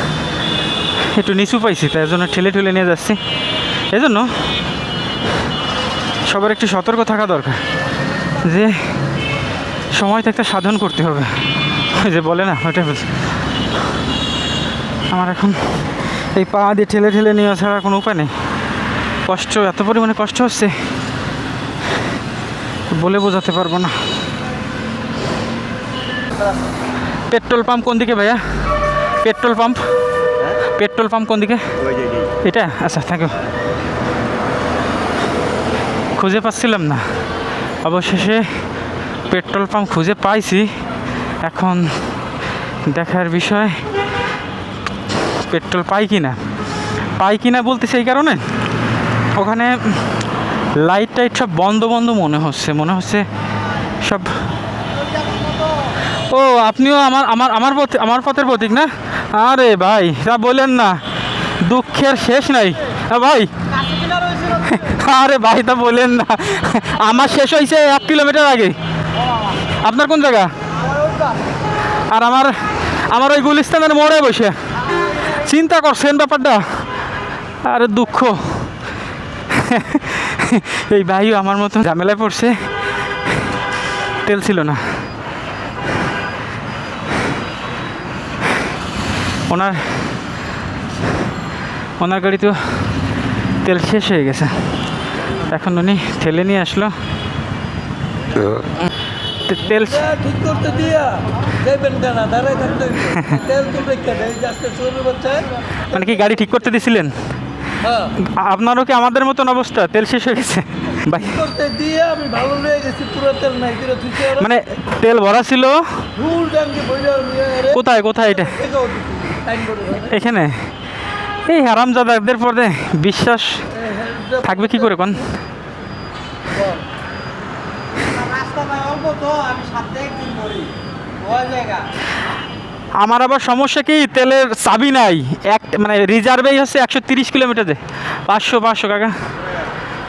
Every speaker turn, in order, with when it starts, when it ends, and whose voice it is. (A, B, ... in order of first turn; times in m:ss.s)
0:01.0-0:03.2 A
0:03.9-0:04.3 A
0:06.3-0:07.6 A
0:08.4-0:08.8 A
0:09.9-0:11.3 A
0:11.9-0:13.1 A
0:15.1-0:18.3 A
0:19.3-0:20.8 A
0:22.9-0:24.0 A
0:27.3-0:28.4 A
0:29.2-0:29.8 A
0:30.8-0:31.7 A
0:32.4-0:33.4 A
0:36.2-0:37.0 A
0:37.8-0:38.5 A
0:39.3-0:40.7 A
0:41.4-0:41.9 A
0:42.9-0:43.8 A
0:45.4-0:46.4 A
0:47.2-0:48.4 A
0:49.4-0:50.0 A
0:50.8-0:53.2 A
0:54.0-0:54.4 A
0:56.3-1:01.0 A
1:01.6-1:03.5 A
1:04.5-1:08.8 A
1:09.8-1:10.5 A
1:12.1-1:14.6 A
1:15.2-1:16.8 A
1:17.6-1:18.7 A
1:19.5-1:22.6 A
1:24.2-1:24.8 A
1:29.5-1:30.1 A
1:32.0-1:32.9 A
1:33.6-1:34.6 A
1:35.4-1:36.9 A
1:39.4-1:40.1 A
1:39.8-1:45.6 B
1:43.1-1:43.4 A
1:45.9-1:47.2 A
1:47.8-1:48.1 B
1:48.2-1:51.5 A
1:51.2-1:54.4 B
1:54.2-1:56.1 A
1:56.2-2:00.1 B
1:57.7-1:58.6 A
1:59.9-2:00.6 A
2:01.5-2:03.6 A
2:03.8-2:04.6 B
2:04.4-2:05.3 A
2:08.4-2:10.6 B
2:11.4-2:11.8 B
2:13.0-2:19.2 A